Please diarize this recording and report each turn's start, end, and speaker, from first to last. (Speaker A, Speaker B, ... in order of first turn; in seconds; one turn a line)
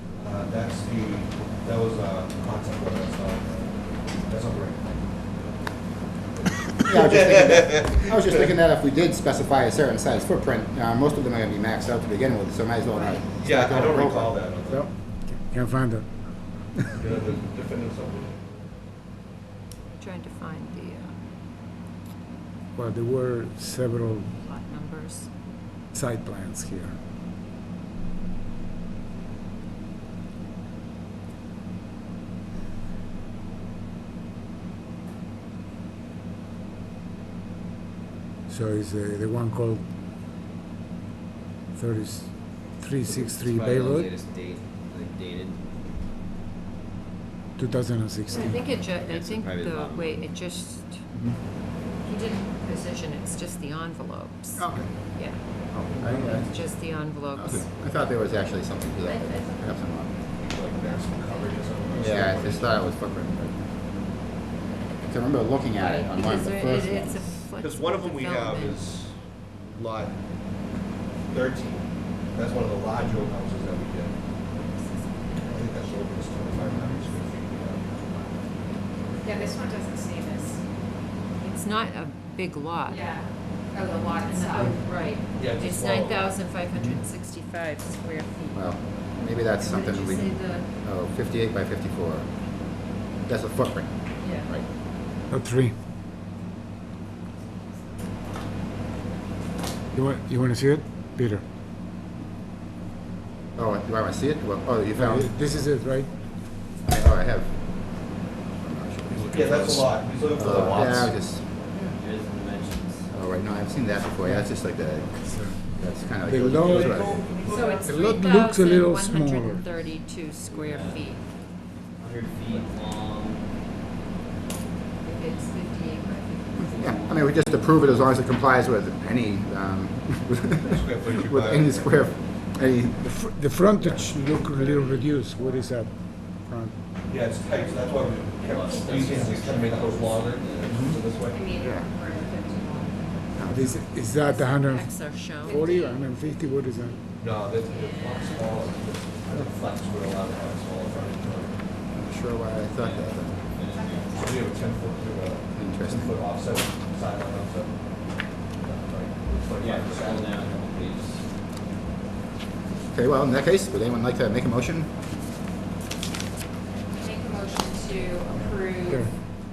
Speaker A: 0.1-5.0
Speaker A: 6.3-8.4
Speaker B: 6.8-14.4
Speaker A: 13.4-14.9
Speaker C: 14.7-16.2
Speaker C: 16.7-17.0
Speaker A: 17.0-18.5
Speaker D: 19.9-21.1
Speaker C: 22.8-24.3
Speaker D: 24.4-25.3
Speaker C: 25.9-27.0
Speaker C: 38.5-39.8
Speaker C: 41.7-44.1
Speaker E: 43.2-45.6
Speaker C: 47.6-48.6
Speaker D: 48.3-51.0
Speaker E: 48.5-50.3
Speaker B: 51.1-51.4
Speaker D: 52.0-57.7
Speaker B: 54.5-56.8
Speaker B: 57.3-60.1
Speaker D: 59.0-59.7
Speaker A: 60.4-62.8
Speaker B: 62.0-63.9
Speaker B: 65.0-67.3
Speaker D: 65.8-68.8
Speaker A: 67.6-70.2
Speaker A: 71.3-74.2
Speaker D: 74.5-76.0
Speaker A: 75.4-78.4
Speaker F: 79.2-80.6
Speaker A: 79.2-79.6
Speaker D: 81.4-83.2
Speaker F: 82.8-85.0
Speaker D: 84.2-88.8
Speaker A: 85.3-86.4
Speaker C: 86.7-87.0
Speaker B: 88.5-94.7
Speaker D: 89.5-90.7
Speaker D: 94.2-94.5
Speaker C: 95.3-95.7
Speaker C: 99.9-101.4
Speaker B: 103.5-105.5
Speaker C: 104.9-106.1
Speaker B: 106.8-107.9
Speaker B: 108.6-111.8
Speaker A: 109.1-111.1
Speaker E: 111.9-113.1
Speaker B: 113.1-117.2
Speaker C: 114.2-114.5
Speaker C: 115.2-119.7
Speaker A: 116.6-117.9
Speaker E: 117.2-117.6
Speaker D: 117.4-121.2
Speaker E: 120.5-121.1
Speaker E: 122.0-123.6
Speaker D: 125.0-126.9
Speaker E: 126.5-128.3
Speaker B: 126.8-133.0
Speaker A: 130.6-132.3
Speaker C: 132.9-136.8
Speaker A: 133.8-134.2
Speaker A: 137.1-141.5
Speaker F: 137.5-139.9
Speaker E: 138.3-140.9
Speaker B: 140.7-141.0
Speaker F: 141.3-143.4
Speaker B: 141.6-141.9
Speaker B: 143.4-143.7
Speaker C: 143.4-147.0
Speaker D: 144.0-145.9
Speaker F: 145.4-146.1
Speaker A: 147.2-151.6
Speaker D: 147.6-148.8
Speaker B: 151.9-153.4
Speaker E: 152.8-154.2
Speaker F: 153.7-154.5
Speaker A: 154.1-157.7
Speaker B: 155.5-156.2
Speaker A: 158.6-160.6
Speaker E: 159.6-161.3
Speaker B: 162.9-164.9
Speaker F: 167.0-169.1
Speaker C: 168.9-169.1